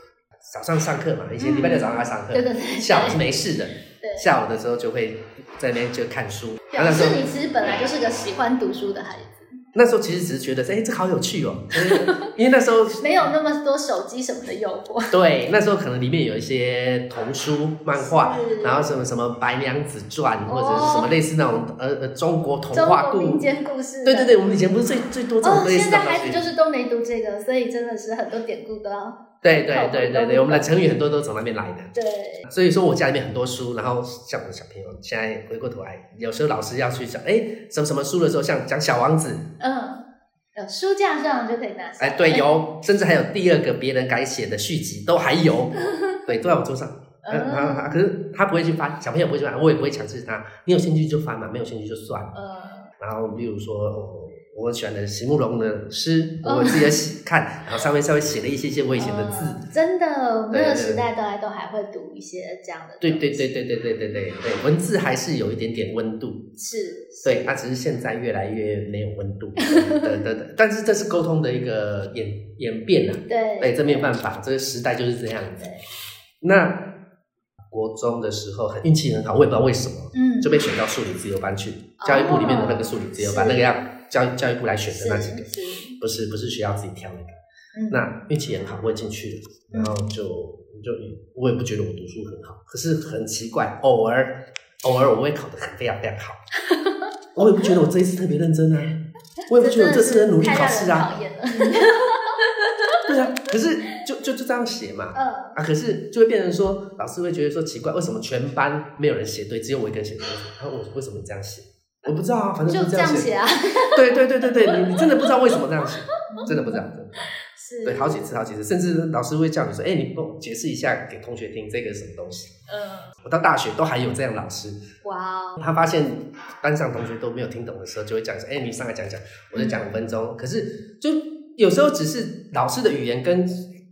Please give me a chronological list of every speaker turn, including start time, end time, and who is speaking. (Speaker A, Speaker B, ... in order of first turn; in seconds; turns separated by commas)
Speaker A: 0.4-7.2, Speaker B: 1.4-3.2, Speaker B: 4.0-4.3, Speaker B: 6.7-9.5, Speaker A: 9.7-13.3, Speaker B: 11.9-12.3, Speaker B: 13.0-15.2, Speaker A: 15.1-23.5, Speaker B: 17.9-18.9, Speaker B: 20.5-21.1, Speaker B: 22.7-24.3, Speaker A: 24.0-26.4, Speaker B: 25.4-30.7, Speaker A: 29.4-31.9, Speaker B: 31.9-32.5, Speaker A: 32.4-39.5, Speaker B: 39.6-42.5, Speaker A: 42.0-52.3, Speaker B: 47.2-48.0, Speaker B: 52.3-52.9, Speaker A: 53.0-59.6, Speaker B: 56.4-56.9, Speaker B: 59.0-63.5, Speaker A: 60.5-61.0, Speaker A: 63.0-66.4, Speaker B: 66.6-67.5, Speaker A: 67.2-75.7, Speaker B: 69.6-70.1, Speaker B: 73.3-74.1, Speaker B: 75.6-75.8, Speaker A: 76.4-76.9, Speaker A: 77.7-85.5, Speaker B: 80.1-80.7, Speaker B: 82.0-83.7, Speaker B: 84.9-86.0, Speaker A: 86.0-87.3, Speaker B: 87.7-88.0, Speaker A: 87.9-96.4, Speaker B: 96.9-97.7, Speaker A: 97.3-99.0, Speaker A: 99.5-101.1, Speaker B: 99.5-103.1, Speaker A: 103.0-113.3, Speaker B: 105.1-105.6, Speaker B: 112.7-115.5, Speaker A: 113.9-117.3, Speaker B: 116.3-116.8, Speaker B: 117.5-118.2, Speaker A: 117.8-122.5, Speaker B: 122.7-123.1, Speaker A: 123.2-124.8, Speaker B: 125.0-125.6, Speaker A: 125.6-133.6, Speaker B: 129.5-129.9